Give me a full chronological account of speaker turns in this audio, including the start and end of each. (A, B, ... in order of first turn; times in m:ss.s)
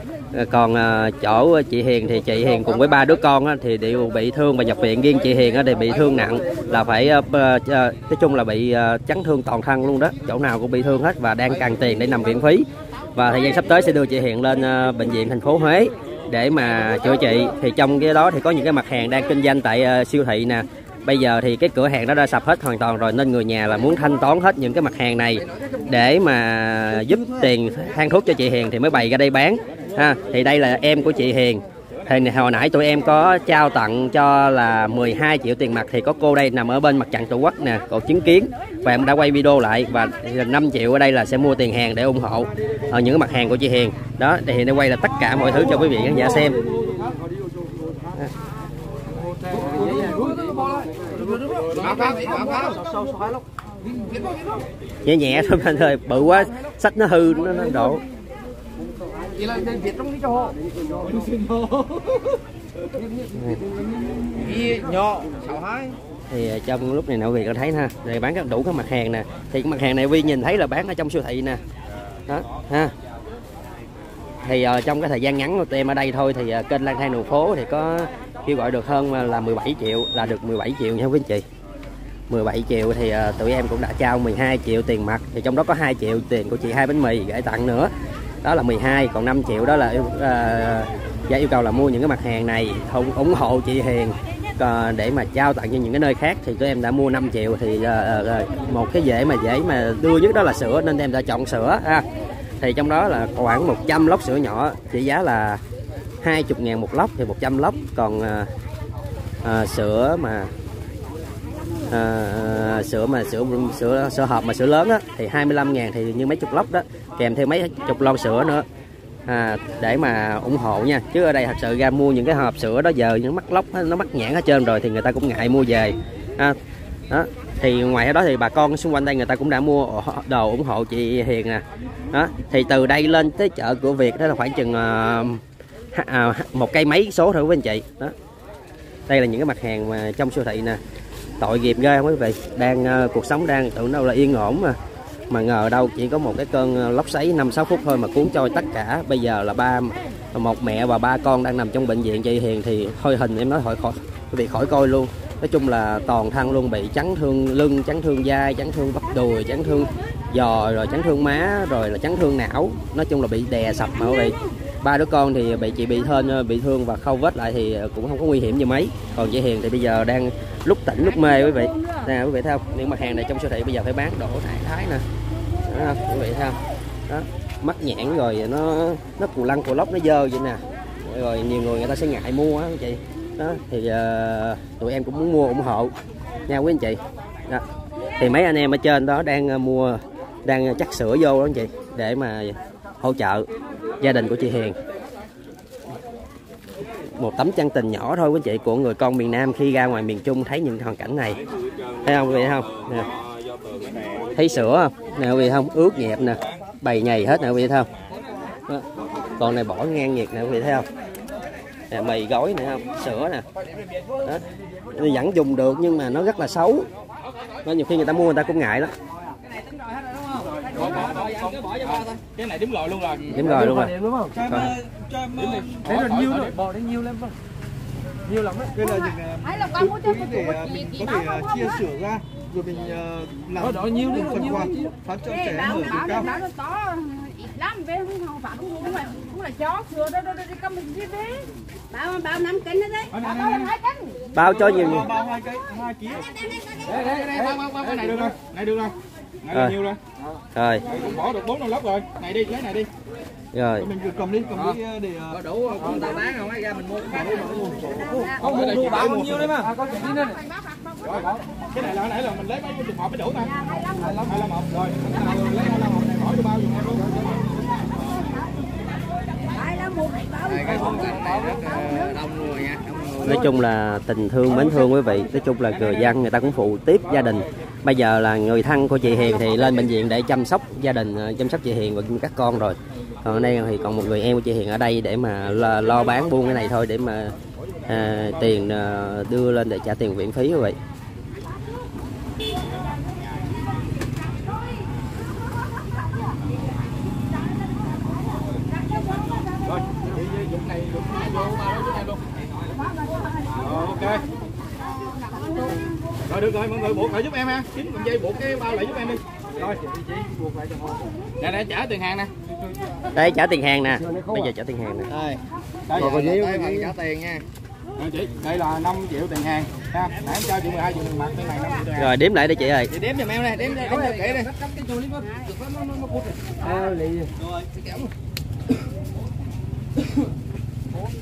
0:00.3-0:46.6 A
0:51.7-0:52.8 B
0:55.0-0:58.0 A
0:59.6-1:00.3 C
1:03.3-1:03.6 A
1:04.5-1:05.9 C
1:06.3-1:11.6 A
1:12.3-1:12.9 A
1:14.4-1:21.4 A
1:22.3-1:27.9 A
1:28.4-1:42.0 A
1:42.6-1:45.6 A
1:46.2-1:48.5 A
1:49.4-1:50.5 A
1:51.9-1:58.6 A
1:59.3-2:06.6 A
2:07.1-2:15.4 A
2:15.9-2:18.1 A
2:19.1-2:20.8 A
2:21.4-2:24.8 A
2:25.3-2:55.0 A
2:55.7-3:05.9 A
3:06.5-3:07.6 A
3:08.2-3:13.5 A
3:14.0-3:14.8 A
3:17.1-3:21.4 A
3:22.0-3:23.1 A
3:24.3-3:27.9 A
3:29.4-3:30.9 A
3:31.9-3:33.4 A
3:34.2-3:36.9 A
3:37.6-3:38.9 A
3:39.4-3:42.2 C
3:40.6-3:43.4 B
3:43.3-3:44.0 A
3:44.3-3:47.1 D
3:44.5-3:44.7 A
3:45.4-3:46.6 B
3:48.5-3:56.3 D
3:48.8-3:51.8 E
3:54.0-4:04.2 E
4:03.1-4:03.7 B
4:04.3-4:05.1 A
4:04.4-4:06.3 D
4:06.9-4:10.0 B
4:06.9-4:07.5 C
4:10.5-4:10.8 A
4:10.9-4:12.9 B
4:13.5-4:13.9 A
4:13.8-4:16.1 D
4:15.3-4:18.2 C
4:17.1-4:19.1 D
4:18.4-4:19.7 B
4:18.8-4:20.0 C
4:20.2-4:21.4 E
4:21.0-4:23.5 B
4:23.4-4:24.3 E
4:24.1-4:27.1 B
4:29.6-4:31.0 E
4:30.5-4:33.4 C
4:31.7-4:32.1 E
4:33.2-4:47.3 A
4:47.9-4:50.8 A
4:58.8-4:59.5 E
4:59.6-5:02.2 B
5:03.1-5:03.9 E
5:03.5-5:04.2 B
5:05.0-5:05.8 E
5:06.2-5:09.8 B
5:11.4-5:12.3 B
5:13.1-5:15.1 A
5:15.1-5:15.4 C
5:15.9-5:16.2 B
5:15.9-5:17.4 C
5:18.0-5:22.1 B
5:22.0-5:22.9 A
5:22.9-5:25.1 C
5:25.2-5:25.6 E
5:25.7-5:26.6 C
5:26.6-5:26.9 E
5:27.8-5:28.0 C